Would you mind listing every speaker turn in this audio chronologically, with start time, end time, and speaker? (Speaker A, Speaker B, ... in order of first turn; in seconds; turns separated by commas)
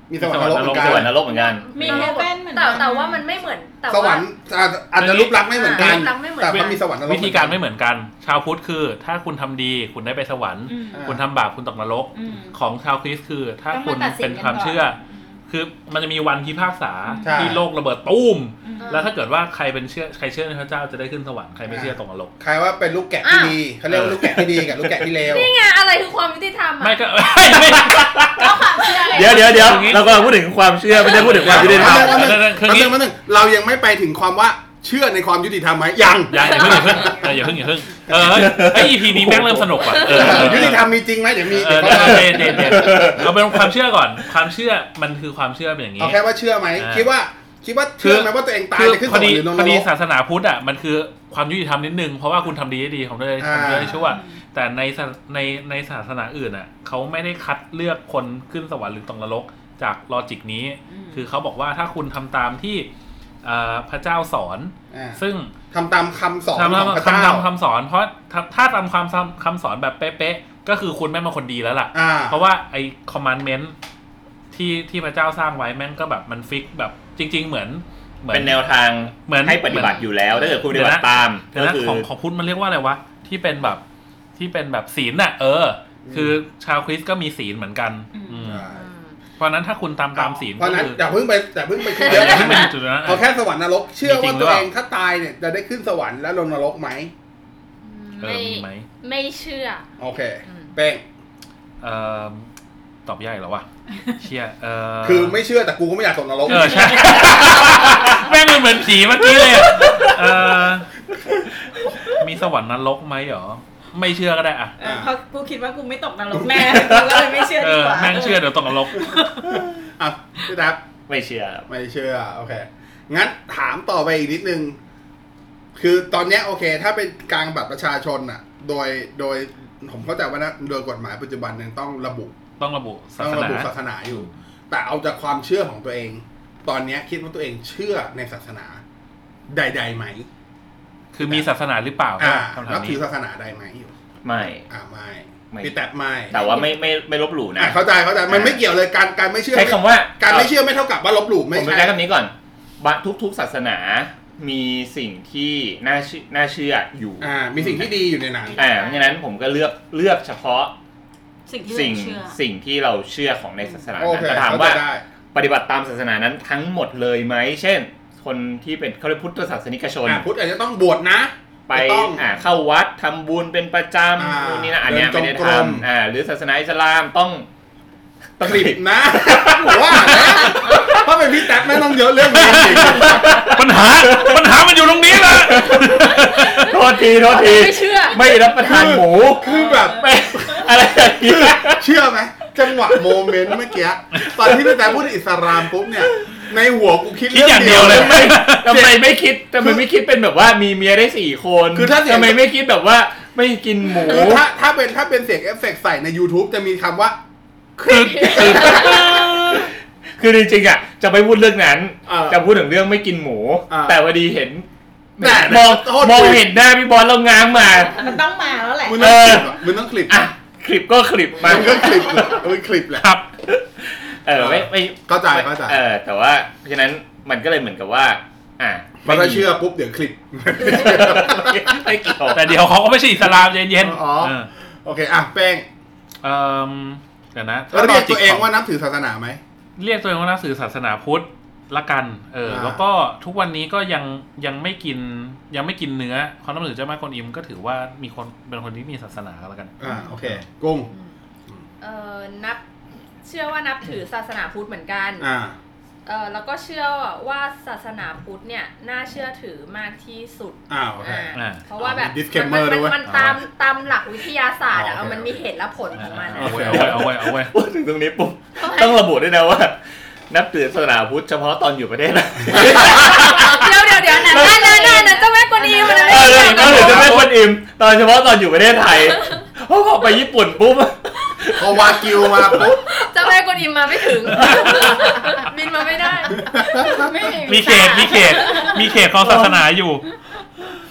Speaker A: 0.1-1.1, Speaker B: 0.2-1.2, Speaker C: 0.6-1.7, Speaker D: 1.3-4.3, Speaker E: 1.7-3.2, Speaker B: 1.8-2.1, Speaker A: 3.9-7.6, Speaker B: 5.0-5.3, Speaker D: 5.5-6.8, Speaker B: 6.6-22.3, Speaker E: 10.7-11.1, Speaker A: 10.9-11.2, Speaker E: 12.1-12.6, Speaker E: 13.7-15.3, Speaker E: 17.1-17.4, Speaker A: 17.2-17.6, Speaker E: 18.6-19.0, Speaker D: 18.8-19.1, Speaker A: 21.7-25.5, Speaker D: 23.2-23.6, Speaker B: 23.9-24.4, Speaker D: 25.2-27.7, Speaker B: 26.8-28.5, Speaker C: 27.7-28.5, Speaker E: 28.4-30.2, Speaker C: 29.1-32.3, Speaker B: 29.2-30.3, Speaker B: 31.0-32.9, Speaker A: 31.2-37.3, Speaker B: 36.3-40.9, Speaker D: 36.7-37.1, Speaker C: 38.2-39.4, Speaker A: 39.4-43.2, Speaker B: 41.5-46.2, Speaker C: 41.9-43.6, Speaker A: 46.0-49.9, Speaker B: 46.8-47.1, Speaker B: 48.0-62.9, Speaker A: 53.4-54.0, Speaker E: 53.9-54.4, Speaker E: 60.9-61.2, Speaker B: 63.4-65.5, Speaker A: 64.9-65.2, Speaker A: 65.7-67.5, Speaker B: 66.5-73.8, Speaker A: 71.9-72.4, Speaker B: 74.5-78.6, Speaker C: 78.3-82.1, Speaker B: 79.2-80.1, Speaker D: 79.7-80.6, Speaker B: 80.6-83.8, Speaker B: 84.3-88.7, Speaker A: 86.0-86.3, Speaker E: 88.1-88.5, Speaker A: 88.4-88.8, Speaker D: 88.7-89.2, Speaker B: 89.4-91.0, Speaker A: 90.1-97.1, Speaker D: 92.0-92.5, Speaker B: 92.0-93.3, Speaker B: 94.0-94.7, Speaker D: 97.8-99.9, Speaker B: 98.2-98.9, Speaker A: 100.0-101.0, Speaker D: 100.5-100.7, Speaker B: 101.8-102.5, Speaker B: 103.1-105.4, Speaker A: 105.0-108.2, Speaker B: 106.5-110.9, Speaker D: 107.6-108.1, Speaker B: 112.1-114.8, Speaker E: 114.8-119.6, Speaker A: 114.8-115.1, Speaker A: 116.3-116.8, Speaker C: 116.7-117.4, Speaker B: 117.5-119.1, Speaker A: 119.5-120.8, Speaker C: 121.1-121.7, Speaker A: 121.7-124.8, Speaker A: 125.8-132.5, Speaker B: 132.6-133.7, Speaker A: 133.2-138.8, Speaker A: 139.5-140.3, Speaker B: 141.1-143.0, Speaker A: 141.2-141.5, Speaker A: 142.2-143.9, Speaker C: 144.2-144.7, Speaker A: 144.7-146.6, Speaker C: 146.3-147.8, Speaker A: 147.6-152.0, Speaker C: 148.3-148.6, Speaker C: 149.5-150.5, Speaker C: 151.5-157.8, Speaker A: 157.2-158.6, Speaker E: 158.4-159.2, Speaker C: 158.6-160.7, Speaker E: 161.5-162.4, Speaker C: 161.6-164.8, Speaker A: 164.0-165.0, Speaker C: 165.3-170.2, Speaker A: 170.1-172.2, Speaker C: 171.7-177.5, Speaker A: 174.2-175.8, Speaker C: 178.4-181.0, Speaker A: 178.4-183.6, Speaker B: 182.5-186.7, Speaker C: 182.6-184.4, Speaker C: 185.3-191.8, Speaker D: 187.2-188.2, Speaker A: 188.4-190.7, Speaker E: 189.4-190.1, Speaker A: 191.2-199.9, Speaker B: 197.3-198.7, Speaker C: 197.7-204.4, Speaker A: 201.7-202.5, Speaker A: 204.0-207.2, Speaker B: 207.8-209.7, Speaker A: 207.8-209.0, Speaker C: 208.3-218.1, Speaker A: 212.1-212.5, Speaker A: 213.7-214.0, Speaker A: 215.2-216.6, Speaker E: 217.9-219.2, Speaker A: 218.8-220.3, Speaker C: 219.0-222.4, Speaker A: 221.4-223.1, Speaker B: 223.0-223.3, Speaker C: 224.2-229.4, Speaker A: 224.3-225.8, Speaker A: 229.0-232.2, Speaker C: 230.6-232.6, Speaker B: 232.3-234.5, Speaker A: 233.2-235.7, Speaker B: 236.2-238.5, Speaker A: 237.7-239.4, Speaker B: 239.8-250.4, Speaker A: 242.4-242.8, Speaker A: 249.8-250.9, Speaker D: 251.8-252.6, Speaker D: 253.2-255.3, Speaker A: 255.2-255.6, Speaker D: 256.1-266.8, Speaker A: 260.7-263.0, Speaker B: 261.3-261.6, Speaker B: 263.1-263.4, Speaker A: 264.7-265.3, Speaker B: 266.0-267.5, Speaker A: 266.3-267.0, Speaker C: 266.6-269.8, Speaker D: 268.6-269.0, Speaker C: 270.3-274.9, Speaker D: 272.6-277.2, Speaker E: 274.3-276.9, Speaker C: 276.0-282.7, Speaker B: 276.5-277.4, Speaker A: 281.5-282.8, Speaker D: 282.5-286.6, Speaker A: 286.4-287.1, Speaker E: 286.4-288.9, Speaker B: 287.4-290.1, Speaker A: 289.2-289.6